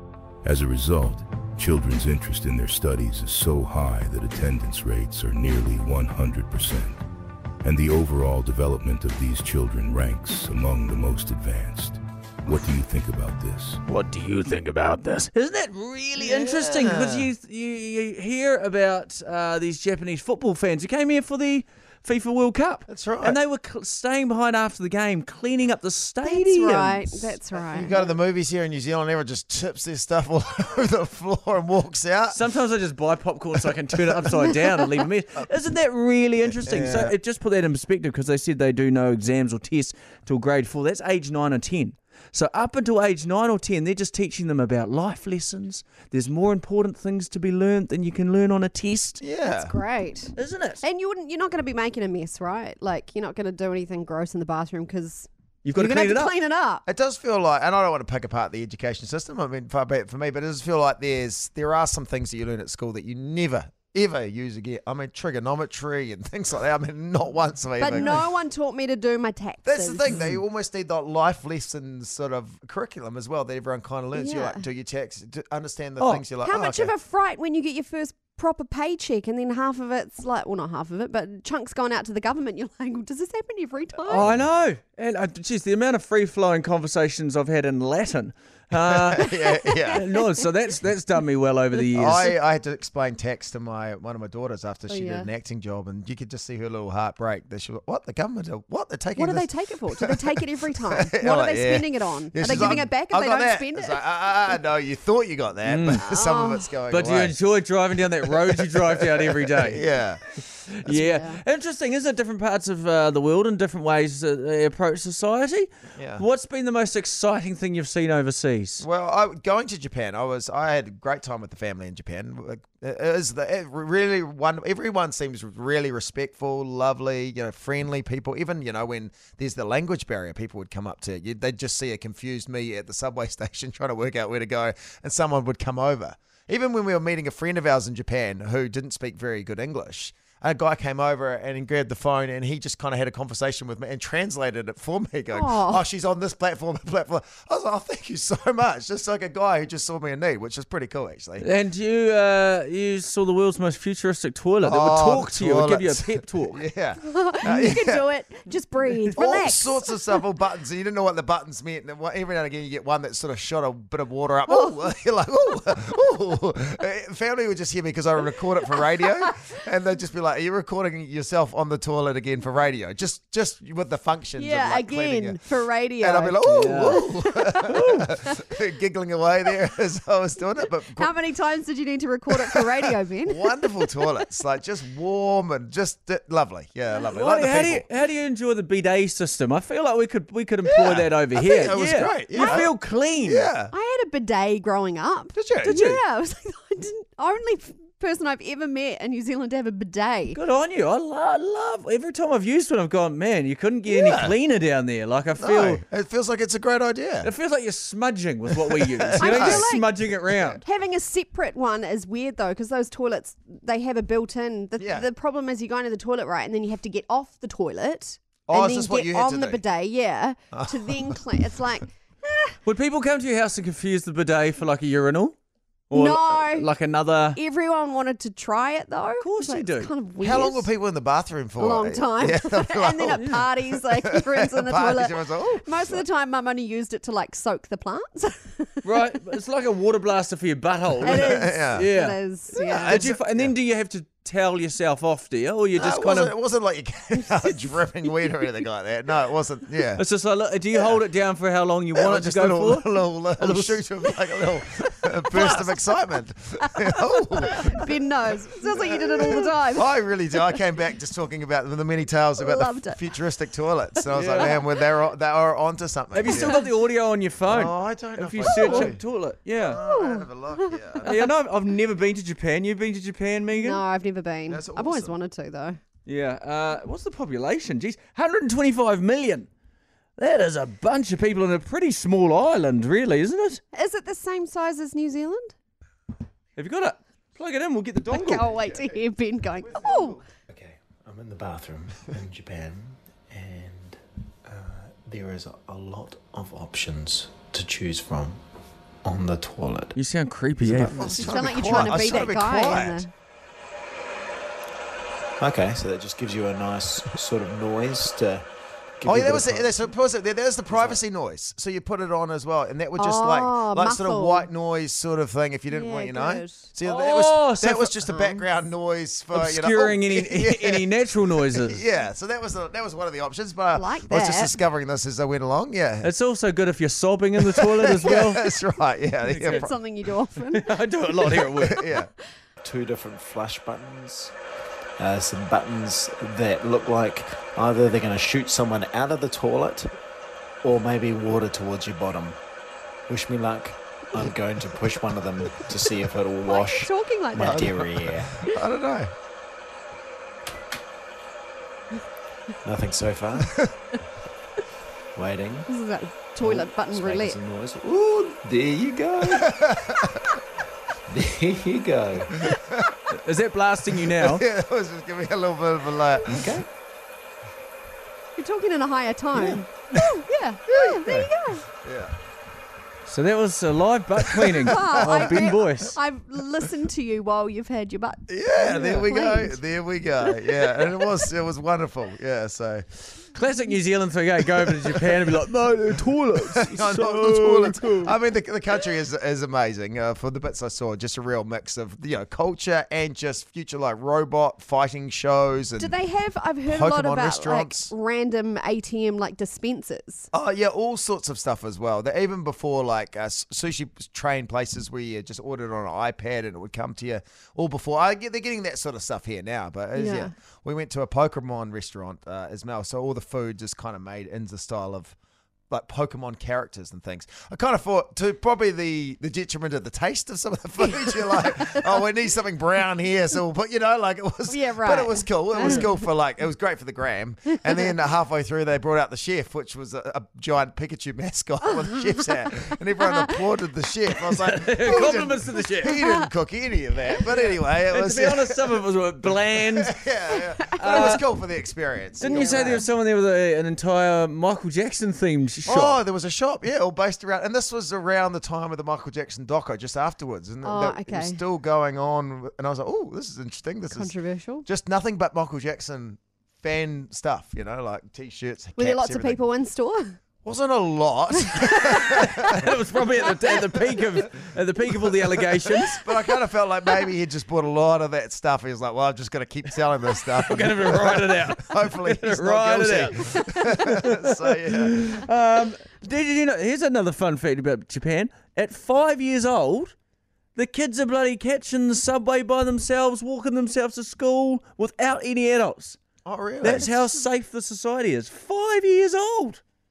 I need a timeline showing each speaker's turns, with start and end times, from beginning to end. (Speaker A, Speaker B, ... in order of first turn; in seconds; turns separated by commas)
Speaker A: 0.4-7.0, Speaker A: 7.6-13.8, Speaker B: 13.8-27.4, Speaker C: 16.2-17.3, Speaker C: 22.9-23.4, Speaker D: 26.2-28.1, Speaker C: 27.7-32.4, Speaker B: 32.3-49.2, Speaker C: 33.7-34.6, Speaker C: 36.6-37.1, Speaker C: 49.2-49.7, Speaker D: 49.4-56.8, Speaker B: 50.4-50.8, Speaker B: 55.6-56.3, Speaker C: 56.9-68.3, Speaker D: 67.8-70.2, Speaker B: 67.9-68.2, Speaker C: 69.7-76.9, Speaker D: 74.1-74.6, Speaker B: 76.0-76.2, Speaker D: 76.4-84.3, Speaker C: 84.1-84.5, Speaker B: 84.1-89.3, Speaker C: 88.8-90.2, Speaker D: 89.2-90.4, Speaker B: 89.9-92.3, Speaker C: 91.9-100.2, Speaker D: 94.9-95.3, Speaker D: 99.1-104.6, Speaker C: 100.9-107.4, Speaker B: 102.5-102.8, Speaker B: 105.7-106.0, Speaker D: 106.0-106.7, Speaker B: 106.9-109.9, Speaker C: 108.2-110.2, Speaker B: 110.7-118.8, Speaker C: 110.8-111.1, Speaker D: 111.1-111.4, Speaker C: 116.0-116.2, Speaker C: 118.8-151.4, Speaker D: 145.3-145.8, Speaker B: 151.4-156.6, Speaker C: 154.6-158.0, Speaker D: 157.0-160.2, Speaker C: 159.1-175.4, Speaker D: 164.5-164.9, Speaker D: 168.8-169.1, Speaker D: 174.3-177.7, Speaker C: 176.0-181.1, Speaker B: 176.4-177.0, Speaker B: 177.6-178.1, Speaker D: 180.6-184.1, Speaker C: 182.3-182.6, Speaker C: 183.2-187.8, Speaker B: 187.1-193.5, Speaker C: 190.7-193.7, Speaker D: 192.3-192.7, Speaker D: 193.7-200.4, Speaker C: 195.3-195.8, Speaker B: 195.6-196.0, Speaker B: 200.3-205.8, Speaker C: 203.9-204.3, Speaker C: 205.4-207.3, Speaker B: 207.2-210.6, Speaker C: 208.7-209.6, Speaker D: 209.2-210.0, Speaker C: 210.3-210.6, Speaker D: 210.6-222.6, Speaker C: 214.8-215.1, Speaker C: 218.5-219.6, Speaker C: 220.5-221.4, Speaker B: 222.6-225.3, Speaker B: 225.9-227.4, Speaker D: 225.9-226.7, Speaker D: 227.3-230.7, Speaker B: 229.2-229.9, Speaker C: 230.2-236.0, Speaker D: 231.6-239.1, Speaker B: 238.8-242.2, Speaker D: 241.0-243.0, Speaker C: 241.0-241.9, Speaker C: 242.5-243.5, Speaker B: 242.7-246.3, Speaker C: 245.7-250.0, Speaker D: 247.2-248.4, Speaker B: 250.0-254.6, Speaker C: 250.7-251.0, Speaker C: 251.9-257.9, Speaker B: 255.3-255.8, Speaker D: 256.6-260.6, Speaker C: 258.7-266.6, Speaker D: 262.4-263.2, Speaker B: 264.1-264.8, Speaker B: 266.1-269.8, Speaker C: 267.5-269.0, Speaker D: 268.5-268.9, Speaker C: 269.6-271.2, Speaker D: 269.7-271.3, Speaker B: 271.0-273.8, Speaker D: 273.5-275.8, Speaker C: 274.5-275.1, Speaker B: 276.1-279.5, Speaker B: 280.2-283.6, Speaker D: 283.7-285.5, Speaker B: 286.6-288.5, Speaker D: 288.1-290.2, Speaker C: 289.7-290.2, Speaker E: 290.5-298.4, Speaker E: 299.0-299.9, Speaker B: 299.9-301.9, Speaker E: 300.6-301.0, Speaker C: 300.7-303.1, Speaker D: 301.0-303.1, Speaker E: 305.4-308.4, Speaker E: 309.0-309.9, Speaker C: 309.0-320.9, Speaker E: 310.7-311.0, Speaker D: 312.9-314.5, Speaker D: 315.7-316.7, Speaker B: 316.8-318.1, Speaker D: 318.1-318.5, Speaker B: 319.3-321.8, Speaker C: 321.4-326.1, Speaker D: 323.7-324.6, Speaker B: 326.0-328.5, Speaker C: 327.4-329.7, Speaker B: 329.3-329.7, Speaker D: 329.4-330.7, Speaker B: 330.4-331.8, Speaker C: 331.3-332.1, Speaker E: 332.6-334.3, Speaker E: 335.0-339.9, Speaker E: 340.6-342.4, Speaker E: 343.1-348.3, Speaker D: 346.4-347.6, Speaker C: 347.4-349.1, Speaker E: 352.6-353.6, Speaker C: 353.4-353.7, Speaker E: 355.1-355.7, Speaker D: 355.7-357.4, Speaker E: 356.4-359.5, Speaker C: 359.3-360.1, Speaker E: 361.1-362.4, Speaker C: 362.5-362.9, Speaker B: 363.1-364.4, Speaker C: 364.1-366.3, Speaker E: 366.3-366.6, Speaker D: 368.4-371.6, Speaker C: 369.3-372.1, Speaker B: 373.1-375.9, Speaker C: 374.2-375.7, Speaker D: 374.6-381.1, Speaker C: 378.3-382.9, Speaker B: 383.3-388.1, Speaker C: 386.5-395.9, Speaker D: 395.8-400.3, Speaker C: 396.6-397.9, Speaker C: 400.3-415.1, Speaker D: 409.9-410.3, Speaker C: 415.7-438.8, Speaker D: 420.9-422.0, Speaker D: 424.5-426.0, Speaker D: 427.5-427.9, Speaker D: 431.7-432.5, Speaker D: 433.0-433.4, Speaker B: 434.2-436.0, Speaker B: 437.3-440.1, Speaker C: 439.5-442.8, Speaker D: 440.6-441.1, Speaker B: 440.7-441.2, Speaker B: 442.2-446.0, Speaker D: 442.2-442.9, Speaker C: 445.6-459.4, Speaker D: 450.6-451.4, Speaker D: 453.9-454.6, Speaker D: 458.8-460.2, Speaker C: 460.4-462.6, Speaker D: 461.3-462.2, Speaker B: 461.8-466.3, Speaker C: 465.1-475.1, Speaker B: 470.2-479.9, Speaker B: 480.6-486.0, Speaker C: 486.2-487.1, Speaker B: 486.6-489.6